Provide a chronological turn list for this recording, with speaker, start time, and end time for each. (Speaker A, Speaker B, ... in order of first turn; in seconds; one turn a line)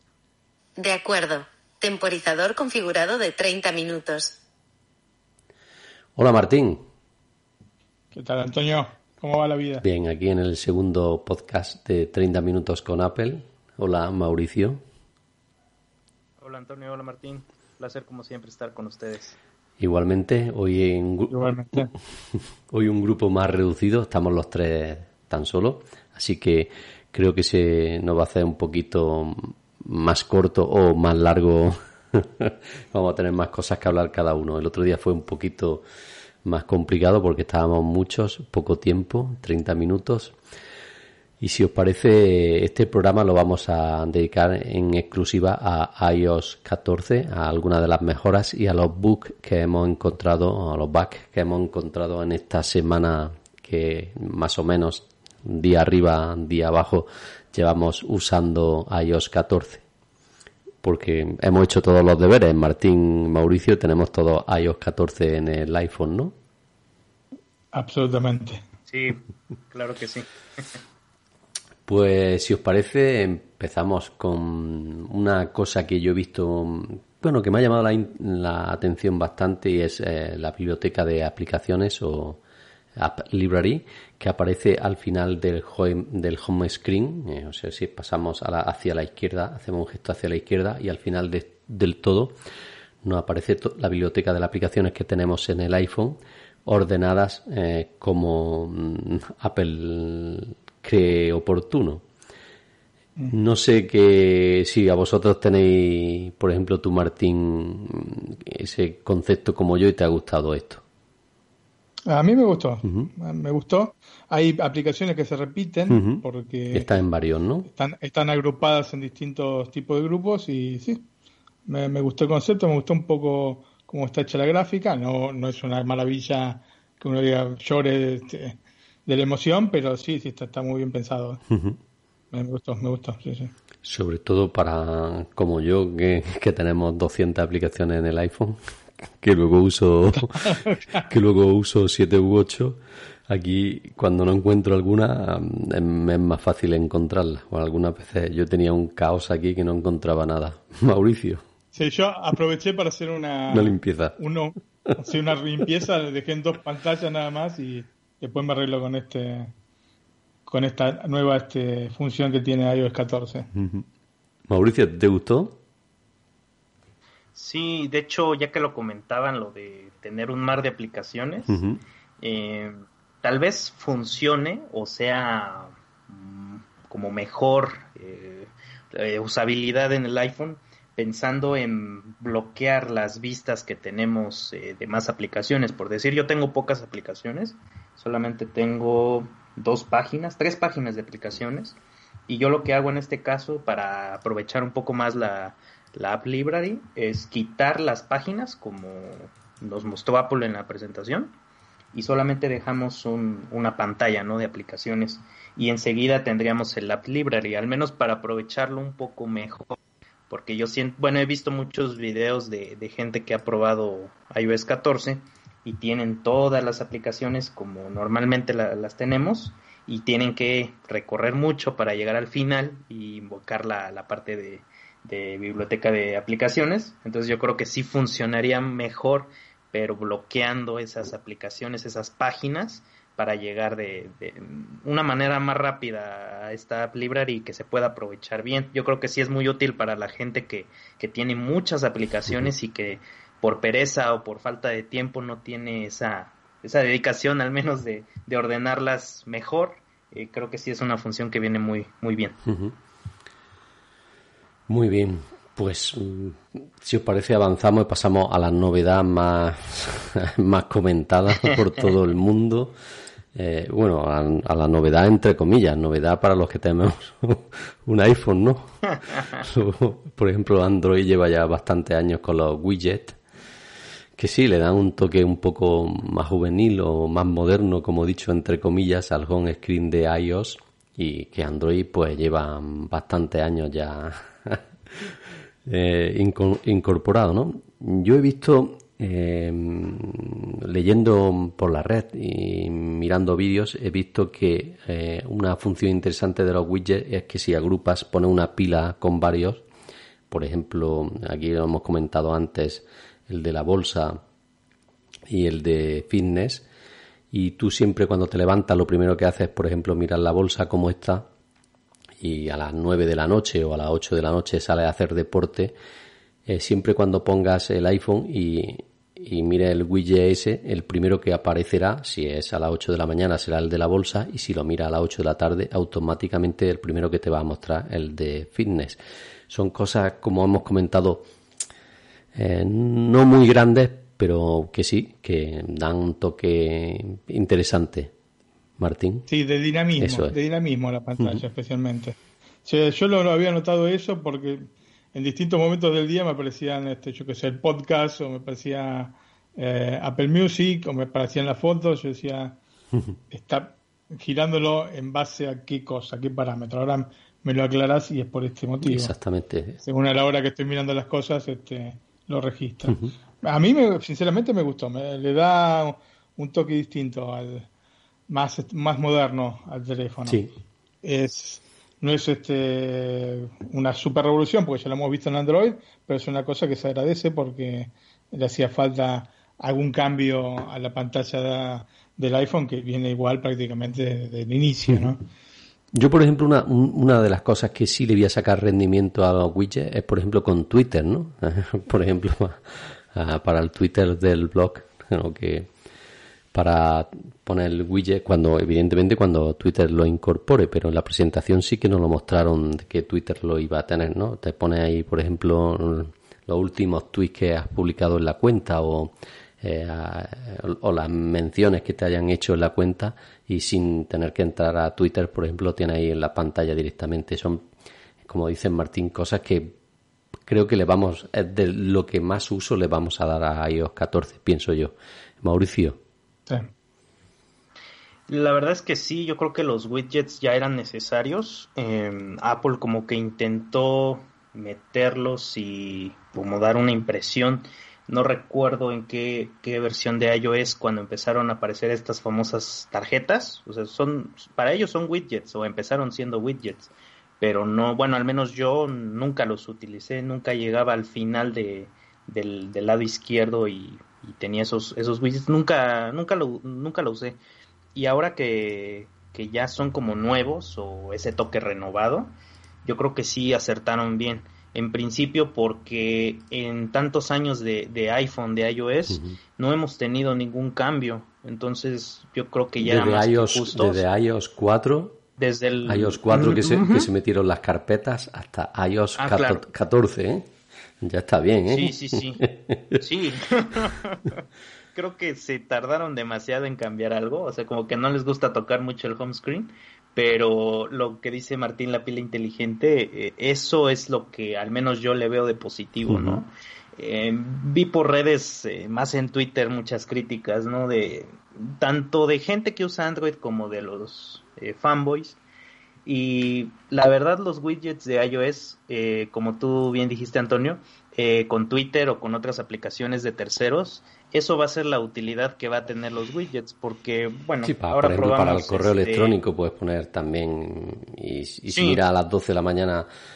Speaker A: 0.8-4.4
Speaker B: 6.2-6.8
Speaker C: 8.1-9.8
Speaker B: 9.8-14.8
Speaker D: 16.4-19.4
Speaker B: 19.8-21.4
Speaker C: 21.3-21.9
Speaker B: 22.7-35.8
Speaker B: 36.5-40.4
Speaker B: 41.4-59.8
Speaker B: 60.8-66.3
Speaker C: 67.7-68.6
Speaker D: 68.9-70.8
Speaker B: 71.9-82.4
Speaker B: 83.0-92.4
Speaker B: 93.0-102.0
Speaker B: 103.3-110.8
Speaker C: 112.1-117.0
Speaker B: 115.9-117.7
Speaker C: 117.7-121.0
Speaker C: 121.7-131.4
Speaker B: 131.5-131.8
Speaker C: 132.3-133.5
Speaker B: 133.8-138.6
Speaker B: 139.2-151.4
Speaker C: 140.1-141.0
Speaker C: 151.7-159.5
Speaker B: 153.5-154.2
Speaker C: 160.5-163.5
Speaker B: 163.5-163.9
Speaker B: 164.5-165.6
Speaker D: 167.3-171.6
Speaker B: 171.5-171.8
Speaker D: 172.2-191.8
Speaker D: 192.3-201.3
Speaker D: 201.9-209.8
Speaker D: 210.3-252.4
Speaker B: 252.4-252.8
Speaker B: 254.7-262.8
Speaker B: 263.3-273.2
Speaker B: 274.2-299.6
Speaker B: 300.3-304.2
Speaker B: 305.3-306.7
Speaker B: 307.3-311.3
Speaker B: 312.2-315.8
Speaker B: 316.5-331.3
Speaker B: 332.4-338.1
Speaker B: 338.8-339.3
Speaker C: 339.3-352.6
Speaker B: 340.0-340.4
Speaker C: 353.3-359.1
Speaker B: 358.8-359.8
Speaker C: 359.8-367.7
Speaker B: 362.9-363.1
Speaker C: 368.3-370.4
Speaker B: 370.3-370.5
Speaker C: 371.0-385.2
Speaker B: 385.9-395.7
Speaker B: 396.5-417.7
Speaker B: 418.2-419.8
Speaker B: 420.5-426.0
Speaker D: 428.3-457.4
Speaker D: 457.9-462.3
Speaker D: 462.8-474.0
Speaker B: 469.1-469.4
Speaker B: 472.8-475.2
Speaker D: 475.4-477.1
Speaker B: 475.9-480.5
Speaker D: 479.2-479.6
Speaker B: 481.0-483.0
Speaker D: 481.7-482.4
Speaker D: 483.0-484.4
Speaker D: 484.9-505.4
Speaker B: 496.1-496.4
Speaker D: 506.1-519.4
Speaker B: 517.6-523.1
Speaker D: 521.7-522.0